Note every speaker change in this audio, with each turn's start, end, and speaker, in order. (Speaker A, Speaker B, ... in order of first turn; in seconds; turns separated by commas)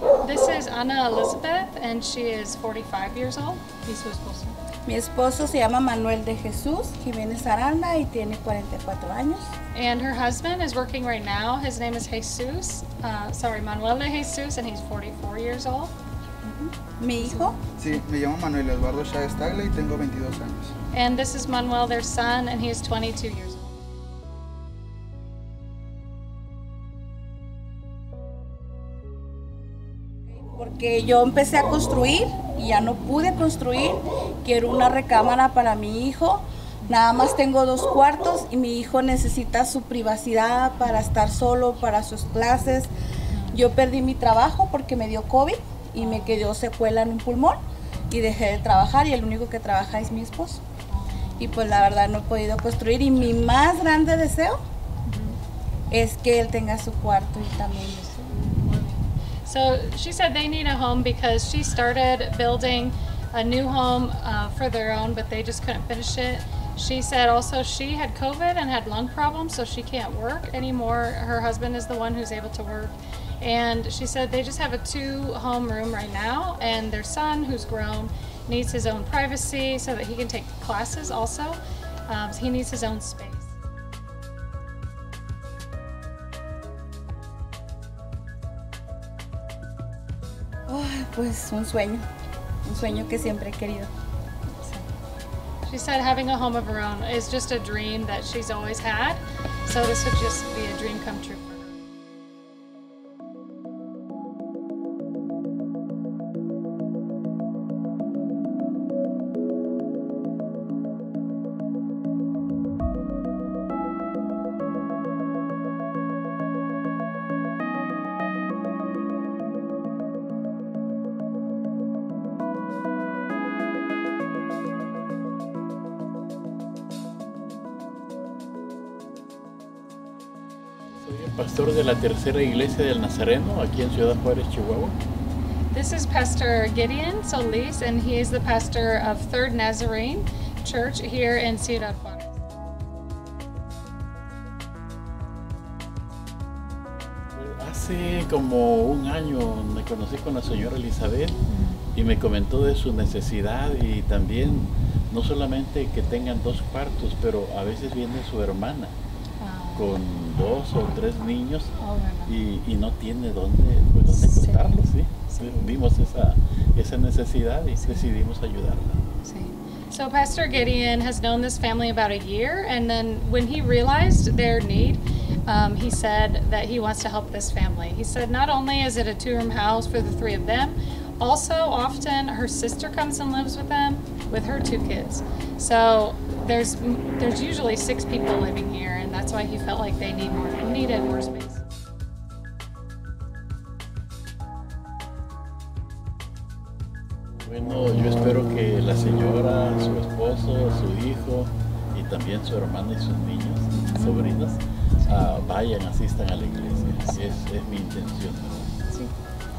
Speaker A: 0.2-4.5, Speaker B: 4.8-9.5, Speaker A: 9.7-15.9, Speaker B: 16.4-17.6, Speaker C: 17.8-20.7, Speaker A: 20.9-23.8, Speaker B: 30.4-42.9, Speaker A: 43.3-43.6, Speaker B: 43.5-47.6, Speaker A: 46.0-46.4, Speaker B: 48.1-50.6, Speaker A: 50.9-51.6, Speaker B: 51.4-54.6, Speaker A: 55.1-55.4, Speaker B: 55.9-58.3, Speaker A: 58.3-83.5, Speaker B: 90.7-92.0, Speaker B: 92.6-93.9, Speaker A: 95.6-101.8, Speaker D: 131.0-135.0, Speaker A: 135.7-142.3, Speaker D: 147.3-151.4, Speaker A: 151.5-151.8, Speaker D: 151.9-159.0, Speaker A: 159.4-160.0, Speaker D: 159.8-161.7, Speaker A: 161.8-162.4, Speaker D: 162.3-169.0, Speaker A: 164.1-164.8, Speaker A: 165.3-165.8, Speaker A: 167.8-168.1, Speaker A: 169.2-191.6, Speaker D: 197.4-208.8, Speaker A: 203.7-204.3, Speaker A: 205.0-205.4